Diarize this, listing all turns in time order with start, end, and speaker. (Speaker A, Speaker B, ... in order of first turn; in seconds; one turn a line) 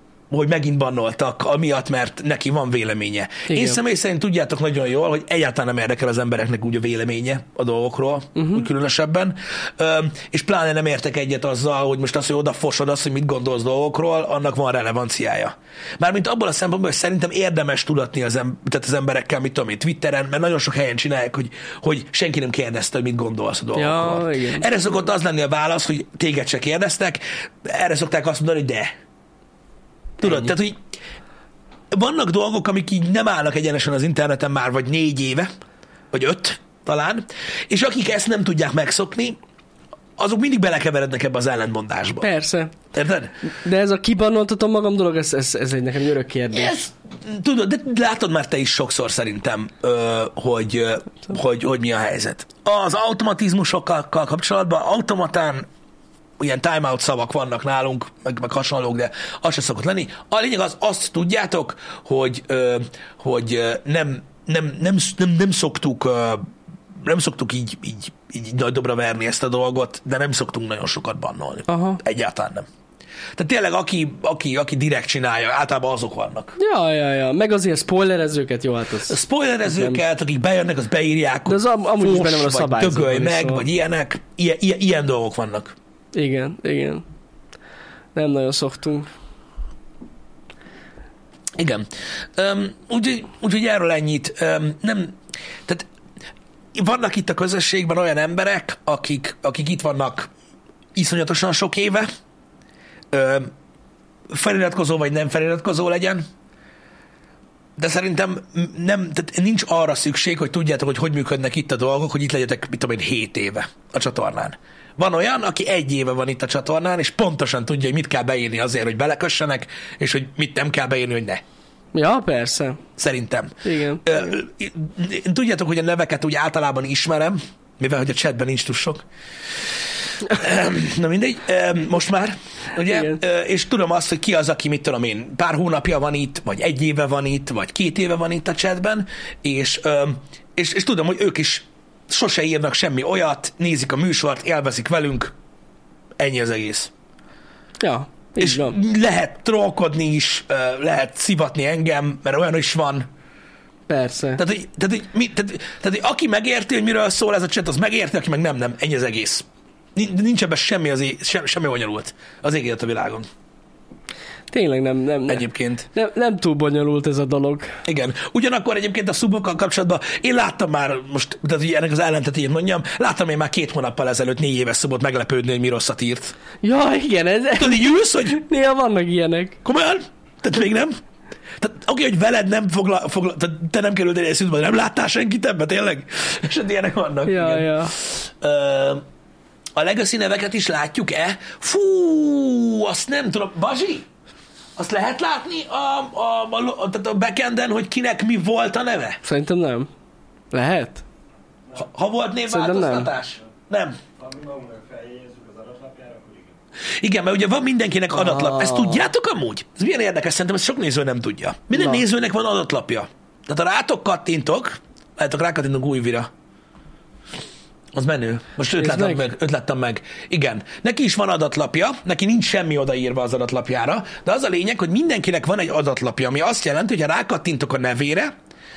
Speaker A: 0.3-28.9
Speaker B: 3.5-3.8
Speaker B: 8.4-8.6
Speaker B: 23.8-24.7
Speaker A: 30.2-30.8
Speaker A: 31.9-35.5
Speaker A: 36.1-39.4
Speaker A: 40.2-42.3
Speaker B: 42.2-42.7
Speaker A: 42.9-43.3
Speaker B: 43.5-46.8
Speaker A: 46.5-55.6
Speaker A: 56.4-66.5
Speaker A: 67.0-72.7
Speaker B: 71.7-72.0
Speaker A: 73.4-76.5
Speaker B: 76.6-80.0
Speaker A: 79.1-85.7
Speaker B: 81.5-83.7
Speaker B: 86.1-87.0
Speaker B: 88.1-89.1
Speaker A: 91.5-95.9
Speaker A: 96.7-100.3
Speaker A: 101.0-102.1
Speaker A: 103.1-103.5
Speaker A: 104.3-106.2
Speaker A: 107.8-121.4
Speaker B: 121.9-122.8
Speaker A: 123.0-129.0
Speaker B: 123.6-124.0
Speaker A: 130.2-145.3
Speaker B: 132.9-133.2
Speaker A: 146.2-146.9
Speaker B: 147.8-148.8
Speaker A: 148.4-153.1
Speaker B: 153.9-154.4
Speaker A: 154.4-163.3
Speaker B: 164.5-167.7
Speaker A: 165.3-165.8
Speaker A: 167.8-176.3
Speaker B: 176.6-179.6
Speaker A: 177.5-178.4
Speaker A: 179.7-180.9
Speaker A: 181.6-189.0
Speaker B: 187.3-187.9
Speaker A: 189.8-194.1
Speaker A: 194.8-199.2
Speaker B: 199.2-199.9
Speaker B: 200.5-201.0
Speaker A: 201.8-204.0
Speaker B: 202.5-203.1
Speaker C: 204.2-206.6
Speaker A: 207.0-216.3
Speaker B: 208.1-209.0
Speaker B: 211.7-212.0
Speaker A: 217.9-228.3
Speaker B: 218.8-219.2